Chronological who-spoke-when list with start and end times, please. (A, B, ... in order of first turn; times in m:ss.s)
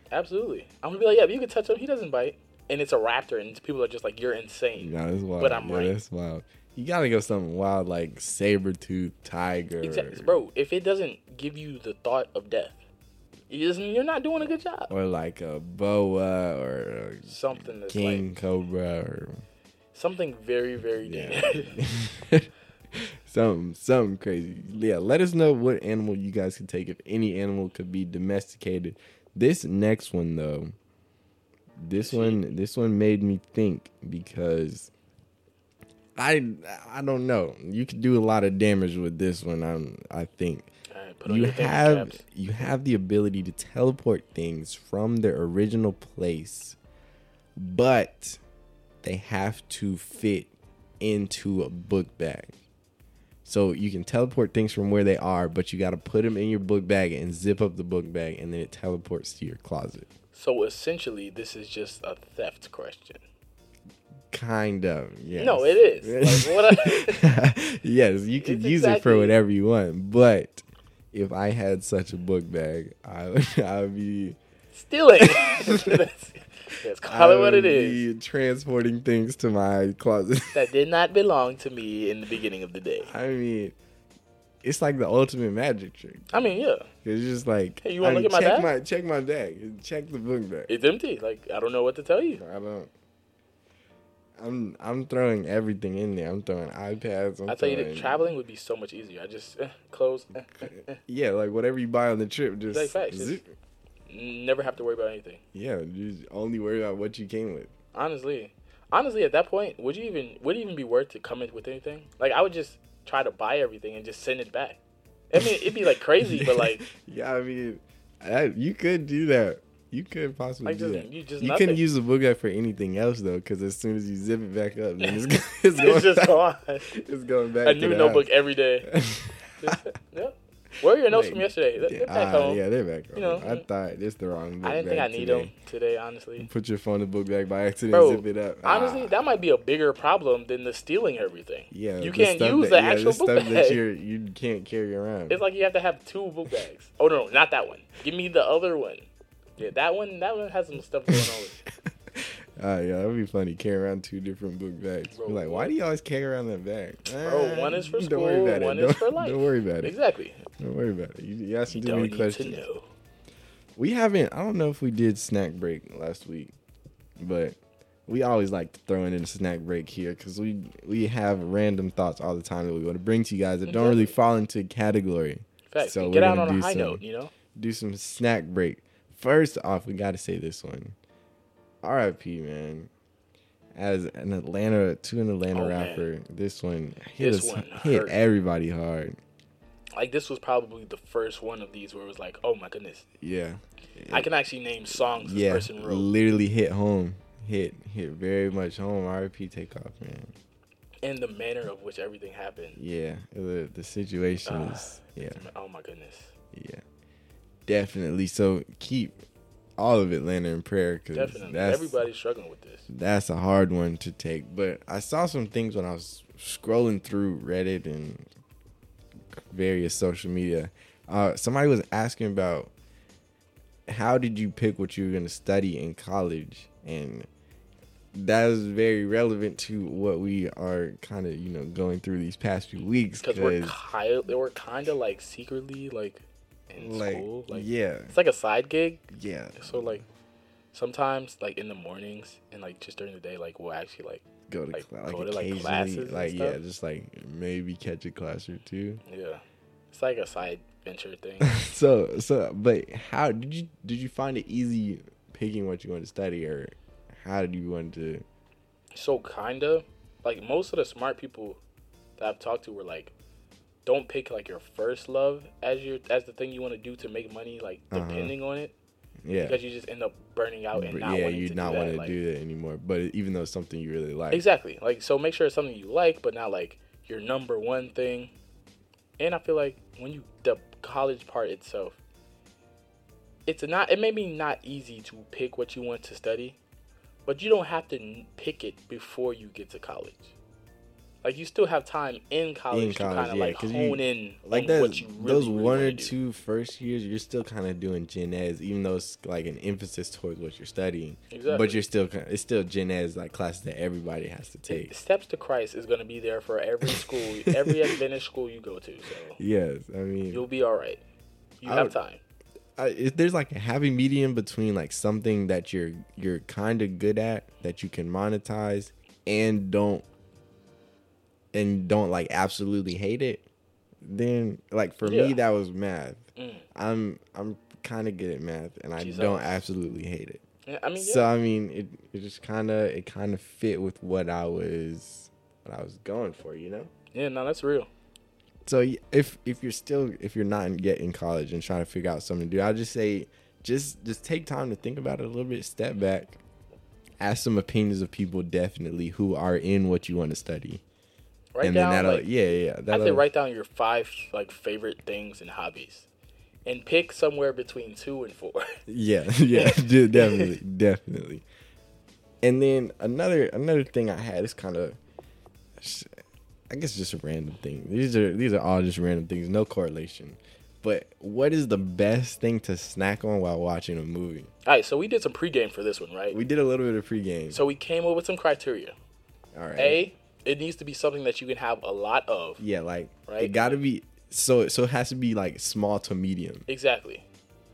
0:00.1-0:06.0 A
0:04.8-0:10.4 B
0:09.8-0:12.8 A
0:13.5-0:14.9 A
0:14.9-0:19.4 B
0:17.2-0:18.3 A
0:19.9-0:21.8 A
0:21.0-0:30.7 B
0:31.8-0:34.9 B
0:32.0-0:32.4 A
0:36.2-0:40.7 B
0:40.9-0:42.7 A
0:41.2-0:46.8 B
0:47.6-0:48.4 B
0:49.0-0:52.5 B
0:53.4-1:00.1 B
1:00.3-1:03.2 A
1:04.3-1:14.4 B
1:05.4-1:07.3 A
1:08.4-1:09.4 A
1:14.7-1:18.0 A
1:15.2-1:16.0 B
1:17.0-1:20.7 B
1:20.5-1:23.1 A
1:23.0-1:23.8 B
1:24.6-1:26.3 B
1:26.3-1:26.9 A
1:27.0-1:30.7 B
1:27.8-1:28.7 A
1:30.7-1:32.4 A
1:32.4-1:32.9 B
1:34.4-1:38.3 B
1:37.5-1:40.9 A
1:40.6-1:43.4 B
1:42.7-1:43.4 A
1:44.1-1:45.4 A
1:45.5-1:47.7 B
1:47.9-1:54.8 A
1:55.3-1:56.8 A
1:55.3-2:08.3 B
2:00.6-2:01.8 A
2:05.8-2:06.9 A
2:07.6-2:08.9 A
2:08.8-2:09.8 B
2:09.6-2:12.6 A
2:11.1-2:15.5 B
2:13.1-2:13.6 A
2:14.6-2:16.5 A
2:16.4-2:19.1 B
2:17.9-2:23.8 A
2:21.7-2:25.4 B
2:25.3-2:31.6 A
2:31.1-2:31.4 B
2:32.1-2:39.9 B
2:35.1-2:35.7 A
2:37.2-2:40.4 A
2:40.6-2:42.6 B
2:41.7-2:42.9 A
2:43.8-2:46.5 B
2:47.2-2:57.0 B
2:53.6-2:54.2 A
2:55.7-2:57.3 A
2:57.5-3:01.0 B
3:01.8-3:02.9 B
3:03.7-3:09.2 B
3:05.5-3:06.1 A
3:07.2-3:08.2 A
3:09.9-3:13.0 A
3:13.2-3:14.3 B
3:14.1-3:16.1 A
3:14.9-3:20.3 B
3:21.0-3:22.8 A
3:22.8-3:25.4 B
3:24.4-3:26.3 A
3:26.5-3:26.8 B
3:27.6-3:29.2 B
3:29.8-3:32.0 B
3:31.1-3:32.9 A
3:32.9-3:38.3 B
3:39.5-3:42.7 B
3:43.9-3:47.3 B
3:48.1-3:53.8 B
3:53.2-4:00.0 A
3:56.8-3:58.1 B
3:59.1-4:00.0 B
4:00.7-4:06.6 A
4:04.5-4:09.0 B
4:09.1-4:11.5 A
4:11.4-4:18.2 B
4:18.9-4:21.6 A
4:22.2-4:23.1 A
4:23.8-4:28.7 A
4:27.9-4:28.3 B
4:29.2-4:29.6 B
4:29.4-4:32.2 A
4:30.7-4:34.4 B
4:34.3-4:38.3 A
4:39.2-4:42.0 A
4:43.4-4:46.6 A
4:47.2-4:50.3 A
4:51.2-4:56.1 A
4:52.7-5:04.9 B
5:01.3-5:01.8 A
5:04.7-5:09.4 A
5:06.8-5:07.9 B
5:09.4-5:10.4 B
5:10.3-5:11.0 A
5:11.6-5:12.2 A
5:11.6-5:12.0 B
5:12.8-5:20.0 B
5:21.5-5:23.4 B
5:24.0-5:30.4 B
5:25.0-5:25.4 A
5:26.4-5:26.6 A
5:29.0-5:29.6 A
5:30.6-5:31.3 A
5:31.0-5:36.9 B
5:37.1-5:37.9 A
5:38.6-5:46.4 B
5:47.2-5:50.8 B
5:51.5-5:52.3 A
5:51.6-5:53.2 B
5:52.9-5:56.1 A
5:56.6-5:58.8 A
5:58.9-6:01.4 B
5:59.5-6:00.6 A
6:02.4-6:05.0 B
6:05.8-6:06.1 B
6:06.7-6:14.5 B
6:14.6-6:16.4 A
6:16.3-6:17.6 B
6:17.5-6:18.9 A
6:19.5-6:20.0 B
6:19.8-6:22.6 A
6:22.6-6:26.6 B
6:23.3-6:23.8 A
6:26.7-6:27.2 A